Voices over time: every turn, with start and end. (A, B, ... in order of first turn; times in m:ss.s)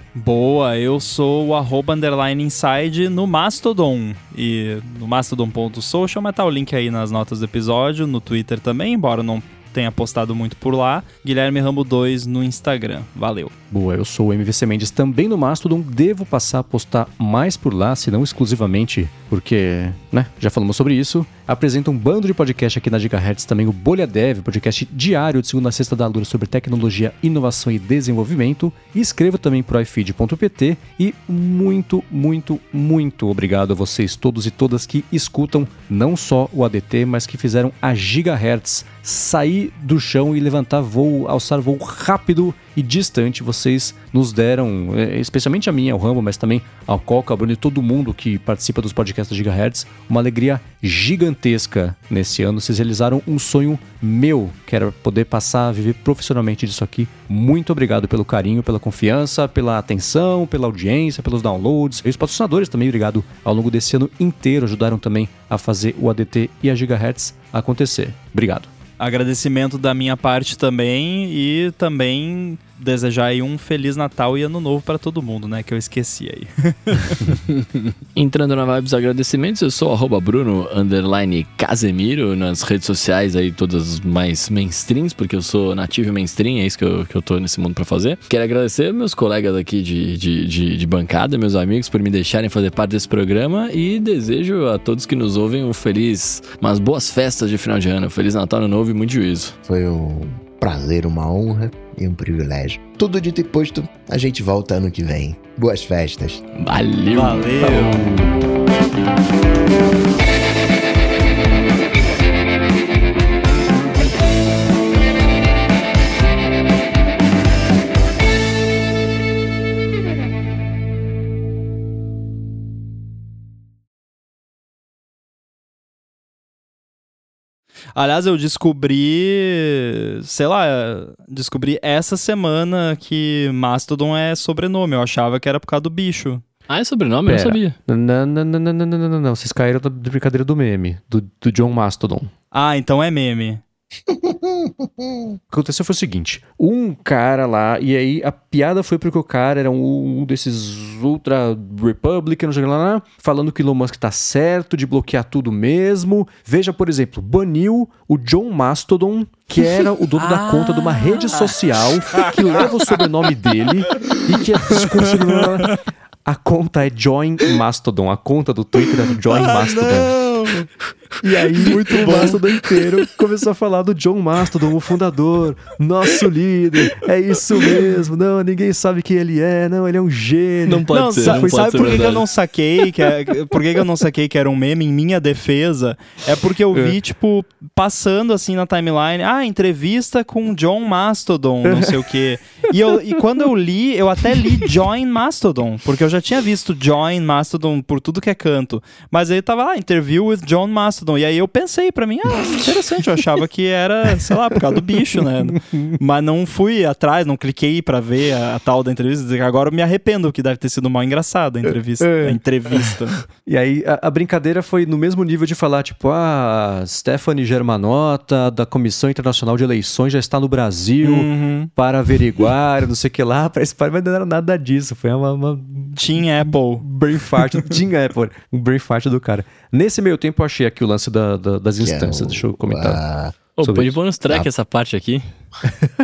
0:00.2-0:13.5 A
0:13.7-1:08.7 B
1:09.0-1:17.4 A
1:18.1-1:39.5 C
1:39.6-1:46.4 D
1:46.5-1:47.5 C
1:47.1-1:48.0 A
1:47.6-1:48.3 B
2:08.0-2:16.4 A
2:16.7-2:17.7 C
2:17.2-2:22.3 B
2:22.5-2:23.6 A
2:24.1-2:25.4 D
2:25.5-2:50.2 B
2:39.8-2:42.7 A
2:44.0-2:45.0 A
2:49.3-2:50.7 A
2:51.2-3:02.0 B
2:51.5-2:53.0 A
3:00.7-3:02.2 C
3:00.9-3:33.2 A
3:14.3-3:14.7 B
3:25.5-3:26.0 B
3:32.0-3:53.0 B
3:41.0-3:41.7 A
3:45.9-3:46.8 A
3:51.8-3:53.3 D
3:53.6-3:55.2 C
3:53.6-3:54.0 B